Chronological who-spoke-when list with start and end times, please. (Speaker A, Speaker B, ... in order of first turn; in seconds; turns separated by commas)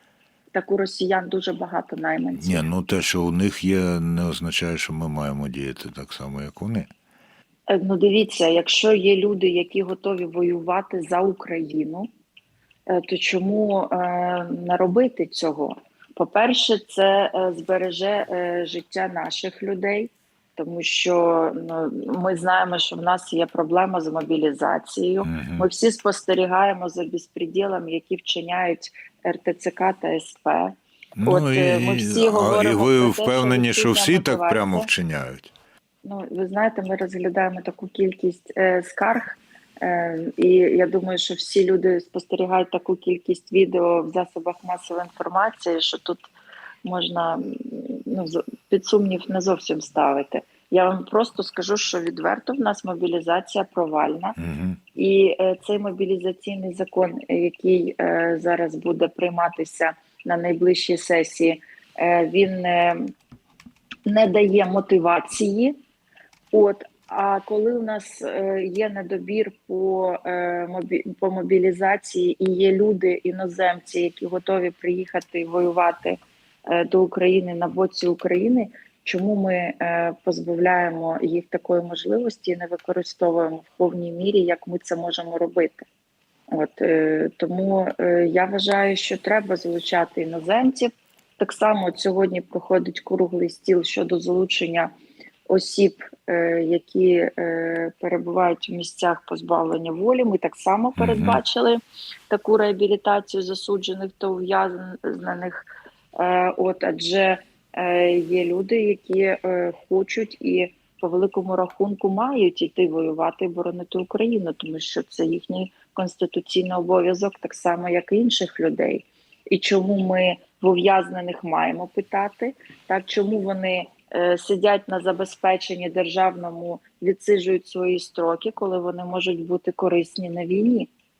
Speaker A: 0.5-2.7, Speaker B: 2.4-6.9, Speaker A: 7.7-12.1, Speaker A: 12.9-34.9, Speaker B: 25.2-25.7, Speaker B: 31.2-35.5, Speaker A: 36.0-46.3, Speaker A: 46.8-54.4, Speaker B: 54.4-54.8, Speaker A: 54.9-63.1, Speaker A: 64.0-65.8, Speaker A: 66.5-85.8, Speaker A: 86.5-94.9, Speaker A: 95.5-130.9, Speaker B: 101.0-101.4